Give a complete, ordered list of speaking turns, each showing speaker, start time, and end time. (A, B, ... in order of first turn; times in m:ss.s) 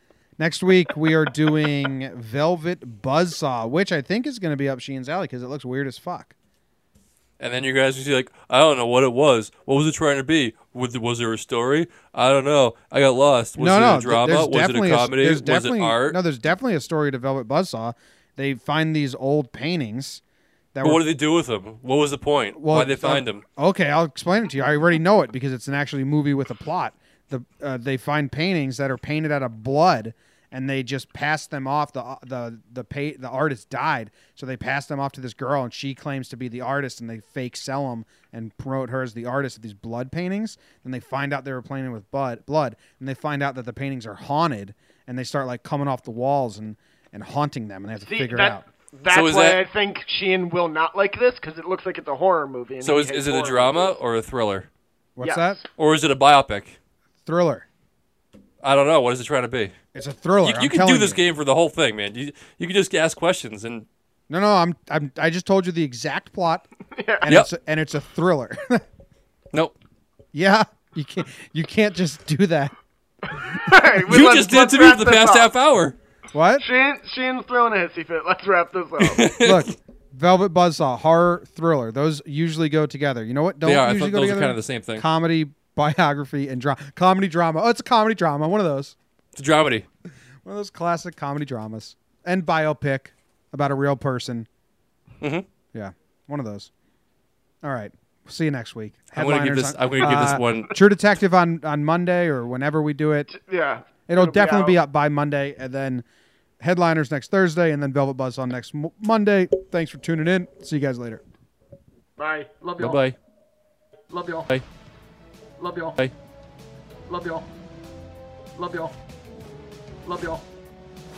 0:00.4-0:06.3 A
0:07.4-0:16.2 B
0:13.6-0:20.2 A
0:20.7-0:21.0 A
0:20.8-0:23.4 B
0:22.6-0:48.6 A
0:48.0-0:53.9 C
0:49.1-0:49.6 B
0:52.8-0:54.7 B
0:55.2-0:55.6 A
0:55.2-0:55.6 C
0:55.8-0:56.8 B
0:57.2-0:57.6 A
0:58.6-0:59.7 B
0:59.9-1:01.2 A
1:00.4-1:03.9 B
1:04.3-1:06.6 A
1:07.0-1:07.3 C
1:07.2-1:08.8 A
1:10.3-1:12.7 A
1:13.3-1:15.5 C
1:14.0-1:16.0 B
1:16.3-1:16.6 A
1:16.6-1:19.3 C
1:19.0-1:19.7 B
1:19.4-1:28.9 A
1:23.6-1:25.0 B
1:29.3-1:29.9 B
1:30.4-1:34.5 A
1:35.2-1:35.5 B
1:35.7-1:36.7 A
1:37.6-1:43.3 A
1:39.1-1:40.8 B
1:43.3-1:44.8 C
1:44.1-1:46.0 A
1:46.6-1:51.2 A
1:52.2-1:53.0 C
1:52.8-1:53.2 B
1:54.1-1:54.5 C
1:55.6-1:56.0 C
1:57.1-1:57.5 C
1:58.6-1:58.9 C
2:00.0-2:00.4 C